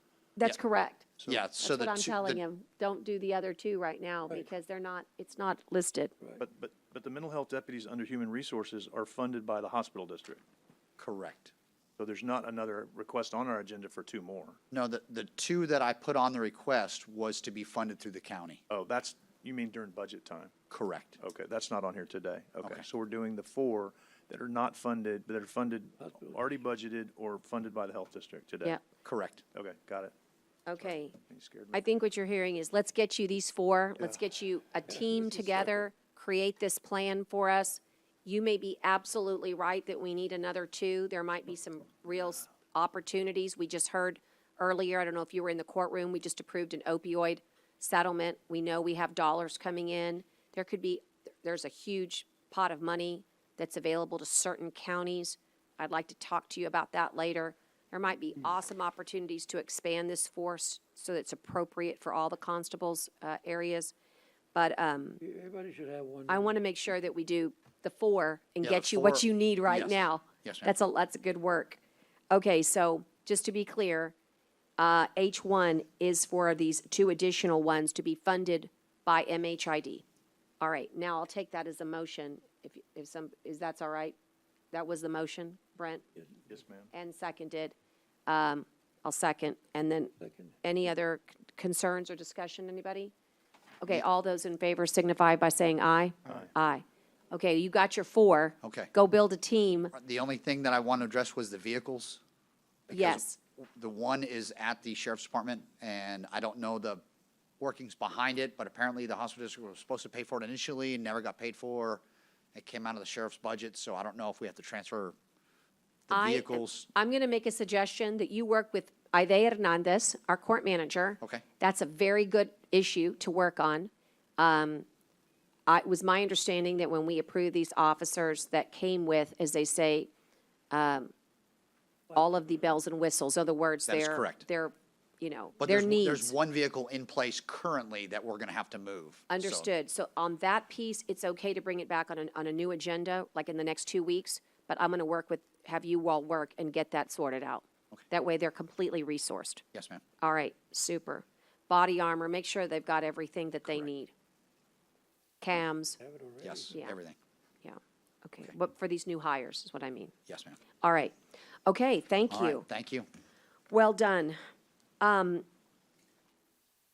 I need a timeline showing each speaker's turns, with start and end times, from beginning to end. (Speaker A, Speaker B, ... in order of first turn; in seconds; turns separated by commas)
Speaker A: 0.4-1.1, Speaker B: 1.2-2.4, Speaker A: 1.6-6.1, Speaker C: 6.4-10.4, Speaker B: 11.0-11.5, Speaker C: 12.0-14.6, Speaker B: 14.7-18.6, Speaker C: 18.7-20.5, Speaker B: 20.7-21.2, Speaker C: 21.2-28.8, Speaker D: 26.0-26.4, Speaker B: 29.0-29.4, Speaker C: 29.5-30.1, Speaker A: 30.7-31.2, Speaker C: 30.8-31.8, Speaker A: 31.7-63.9, Speaker D: 34.9-35.9, Speaker A: 64.5-65.2, Speaker D: 65.2-66.6, Speaker A: 66.3-71.8, Speaker B: 68.6-70.7, Speaker A: 72.3-74.1, Speaker A: 74.8-80.0, Speaker A: 80.6-84.1, Speaker A: 84.7-86.0, Speaker C: 86.5-86.9, Speaker A: 86.9-87.7, Speaker A: 88.3-93.1, Speaker D: 90.2-90.5, Speaker A: 93.8-99.9, Speaker B: 98.6-98.9, Speaker B: 99.9-102.2, Speaker B: 102.9-103.2, Speaker A: 102.9-103.4, Speaker B: 103.8-107.0, Speaker B: 107.6-112.0, Speaker B: 112.5-115.2, Speaker B: 116.1-116.9, Speaker A: 116.1-124.8, Speaker A: 125.7-130.1, Speaker A: 130.7-131.1, Speaker A: 132.1-136.3, Speaker B: 133.9-134.4, Speaker B: 135.6-139.7, Speaker A: 139.3-149.6, Speaker B: 149.7-150.0, Speaker A: 150.2-154.1, Speaker A: 155.4-156.0, Speaker D: 156.0-156.7, Speaker B: 156.4-157.2, Speaker A: 157.6-160.1, Speaker B: 160.3-160.6, Speaker A: 160.8-161.1, Speaker A: 161.7-162.6, Speaker B: 162.3-163.1, Speaker A: 163.7-164.4, Speaker A: 165.0-165.4